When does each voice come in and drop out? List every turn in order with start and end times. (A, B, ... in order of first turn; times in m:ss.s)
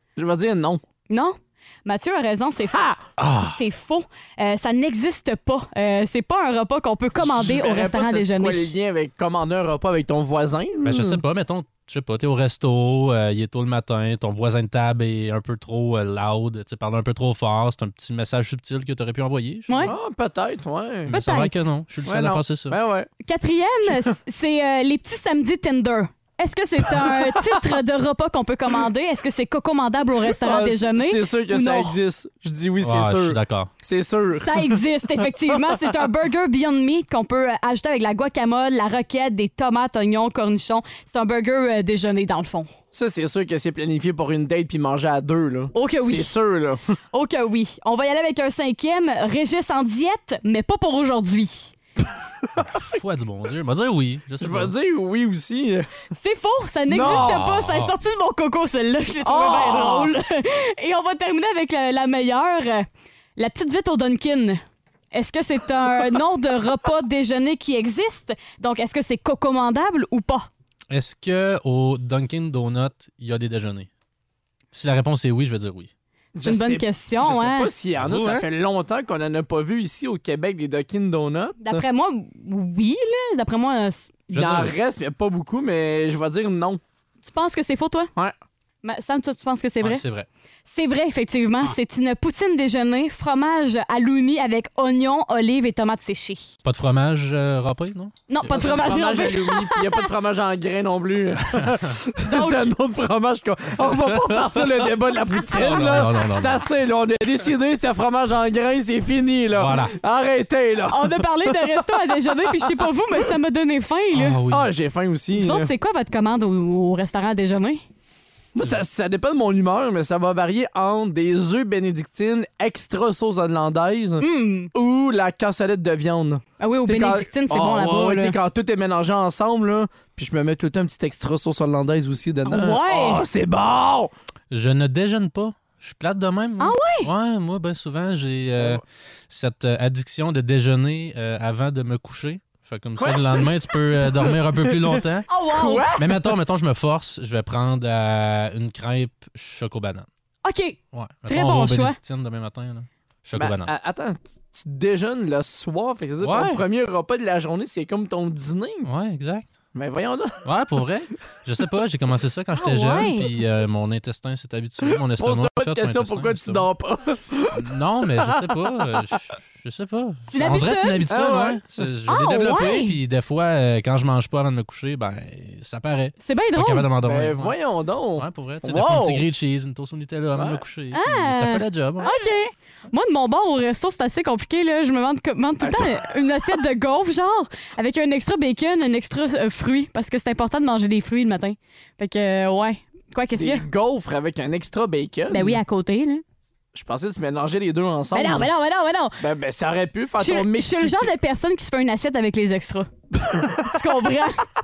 0:00.2-0:00.8 A
0:01.1-0:02.8 B
0:02.7-0:03.0 A
0:03.2-0:03.6 C
0:03.5-0:08.7 B
0:07.2-0:11.2 A
0:10.8-0:19.9 C
0:19.7-0:19.9 B
0:19.8-0:21.1 A
0:21.1-0:22.8 C
0:21.1-0:21.6 B
0:22.1-0:23.1 A
0:23.2-0:32.0 B
0:23.9-0:24.1 A
0:26.9-0:27.6 A
0:30.3-0:34.8 A
0:32.8-0:33.7 C
0:34.4-0:42.7 B
0:42.9-0:46.9 A
0:45.7-0:46.4 B
0:47.1-0:51.7 B
0:52.6-0:54.7 C
0:54.4-0:55.9 A
0:56.1-1:04.6 B
0:56.9-0:57.4 A
0:57.1-0:57.9 C
0:59.2-1:00.1 A
1:05.1-1:10.5 B
1:10.9-1:13.9 C
1:14.7-1:15.9 C
1:16.4-1:21.8 A
1:16.4-1:17.7 B
1:18.0-1:18.5 C
1:21.6-1:24.3 B
1:24.3-1:26.8 A
1:24.3-1:24.8 C
1:27.3-1:28.1 B
1:28.8-1:30.0 B
1:29.8-1:30.3 C
1:30.7-1:36.5 B
1:36.6-1:38.6 C
1:38.3-1:40.0 B
1:38.5-1:51.8 A
1:42.3-1:42.7 B
1:43.9-1:44.9 C
1:45.5-1:46.6 C
1:49.6-1:50.0 C
1:50.9-1:54.4 B
1:54.1-1:54.7 C
1:54.5-1:55.7 A
1:55.4-1:57.8 B
1:58.6-2:14.1 A
2:04.2-2:04.7 B
2:06.6-2:08.4 B
2:12.4-2:13.2 B
2:14.5-2:25.3 C
2:16.6-2:17.1 B
2:23.0-2:24.8 A
2:25.3-2:25.9 B
2:25.6-2:26.3 A
2:25.9-2:30.1 C
2:30.4-2:32.0 B
2:30.9-2:33.7 C
2:33.4-2:38.9 A
2:36.2-2:36.6 C
2:38.8-2:39.5 C
2:39.8-2:40.5 A
2:40.4-2:46.7 C
2:42.6-2:43.3 B
2:45.2-2:47.6 A
2:47.5-2:57.6 C
2:50.3-2:51.0 B
2:51.1-2:51.6 A
2:52.1-2:52.9 B
2:56.2-2:56.9 B
2:57.0-2:59.2 A
2:58.2-3:02.1 C
3:00.4-3:00.6 A
3:00.9-3:13.6 B
3:05.6-3:05.9 A
3:13.4-3:15.6 A
3:15.3-3:16.2 B
3:16.7-3:18.5 A
3:18.1-3:19.2 B
3:19.2-3:21.1 A
3:20.2-3:22.9 B
3:23.2-3:24.1 A
3:23.6-3:24.4 B